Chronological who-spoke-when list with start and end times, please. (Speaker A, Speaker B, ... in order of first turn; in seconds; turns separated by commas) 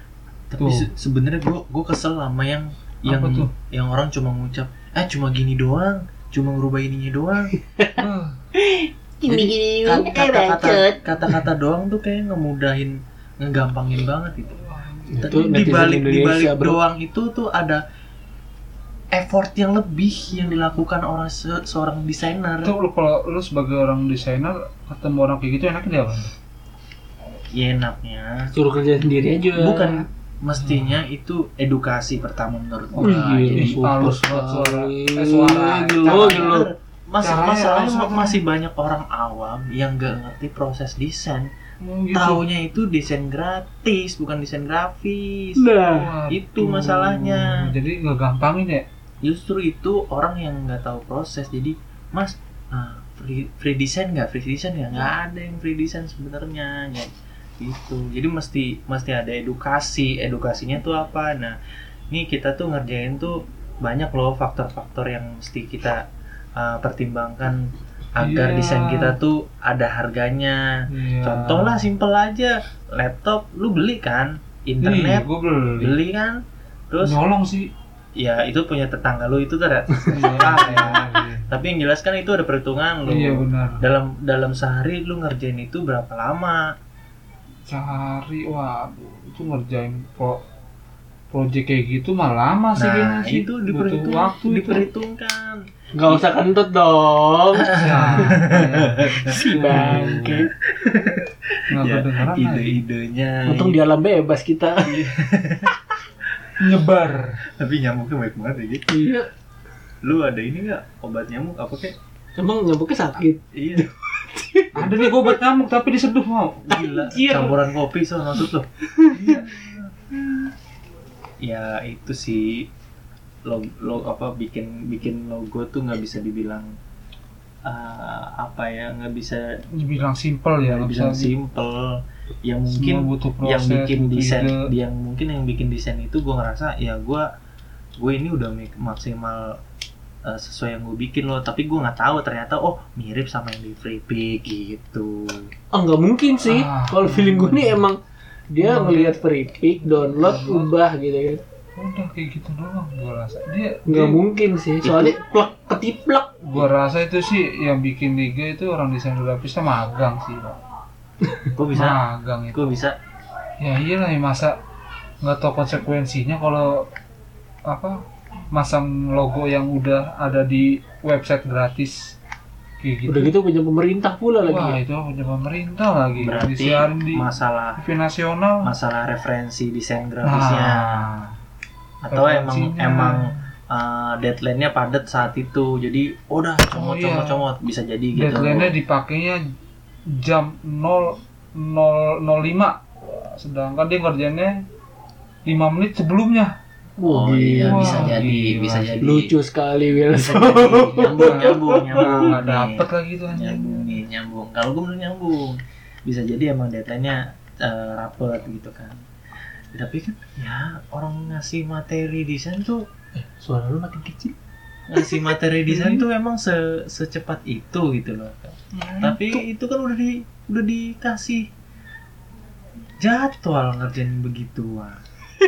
Speaker A: 0.5-7.5, Speaker B: 0.6-0.9, Speaker B: 3.1-3.5, Speaker B: 8.0-8.3, Speaker C: 8.6-11.0, Speaker A: 9.2-14.6, Speaker B: 14.6-15.6, Speaker C: 15.1-16.8, Speaker A: 15.2-17.8, Speaker A: 19.1-22.7, Speaker B: 20.3-20.6, Speaker B: 22.6-26.3, Speaker A: 27.5-28.5, Speaker C: 28.5-30.0, Speaker A: 29.5-34.1, Speaker B: 30.6-30.9, Speaker B: 32.9-36.6, Speaker C: 33.0-36.7, Speaker A: 36.0-41.5, Speaker B: 37.2-38.4, Speaker B: 41.8-42.4, Speaker A: 42.1-45.6, Speaker C: 45.6-46.1, Speaker B: 45.9-48.8, Speaker A: 46.3-47.4, Speaker A: 49.2-57.1, Speaker A: 57.6-61.6, Speaker A: 62.1-66.0, Speaker A: 66.6-70.6, Speaker B: 68.2-69.2, Speaker B: 70.9-71.9, Speaker A: 71.2-75.3, Speaker B: 74.8-76.0, Speaker A: 75.8-76.4, Speaker A: 76.9-77.2, Speaker B: 77.0-77.7, Speaker A: 78.2-86.7, Speaker B: 80.0-81.4, Speaker B: 83.1-83.8, Speaker B: 87.7-90.4, Speaker B: 91.3-94.9, Speaker A: 92.8-96.3, Speaker C: 95.9-98.3, Speaker A: 97.5-99.9, Speaker B: 97.8-100.4, Speaker C: 99.3-100.5, Speaker A: 100.7-103.8, Speaker B: 101.7-102.8, Speaker C: 103.5-105.0, Speaker A: 104.8-105.8, Speaker B: 106.6-107.4, Speaker A: 107.6-108.9, Speaker C: 108.9-109.3, Speaker A: 110.0-111.9, Speaker C: 112.4-115.3, Speaker A: 113.5-113.9, Speaker B: 114.7-116.8, Speaker A: 116.7-118.7, Speaker C: 116.8-117.5, Speaker B: 119.2-119.6, Speaker A: 119.3-119.7, Speaker A: 121.4-122.7, Speaker A: 123.5-126.7, Speaker A: 127.7-129.5, Speaker B: 129.7-131.3, Speaker A: 130.6-137.2, Speaker B: 132.7-134.6, Speaker A: 138.0-139.5, Speaker A: 140.2-145.4, Speaker C: 145.7-148.0, Speaker B: 146.4-147.8, Speaker C: 148.5-151.4, Speaker B: 148.6-149.2, Speaker B: 149.8-150.7, Speaker B: 151.8-154.2, Speaker C: 153.8-156.3, Speaker A: 154.8-155.2, Speaker B: 156.4-160.6, Speaker A: 161.6-162.0, Speaker B: 161.7-162.8, Speaker A: 162.5-162.9, Speaker B: 163.6-164.6, Speaker B: 165.2-166.9, Speaker B: 167.7-172.2, Speaker B: 172.8-173.3, Speaker C: 173.1-174.8, Speaker B: 174.4-177.2, Speaker A: 176.2-177.8, Speaker B: 177.8-178.7, Speaker A: 178.6-180.8, Speaker B: 180.2-181.3, Speaker A: 182.0-188.7, Speaker B: 182.1-183.3, Speaker B: 186.7-187.4, Speaker B: 188.2-189.4, Speaker B: 190.1-194.6, Speaker B: 195.4-196.5, Speaker C: 197.0-198.1, Speaker A: 197.1-199.3, Speaker B: 197.6-199.0, Speaker C: 199.0-202.1, Speaker A: 200.1-209.0, Speaker B: 200.6-204.0, Speaker A: 209.7-212.8, Speaker C: 213.2-214.3, Speaker A: 214.9-221.4, Speaker B: 215.7-216.0, Speaker B: 218.7-219.4, Speaker A: 223.0-225.0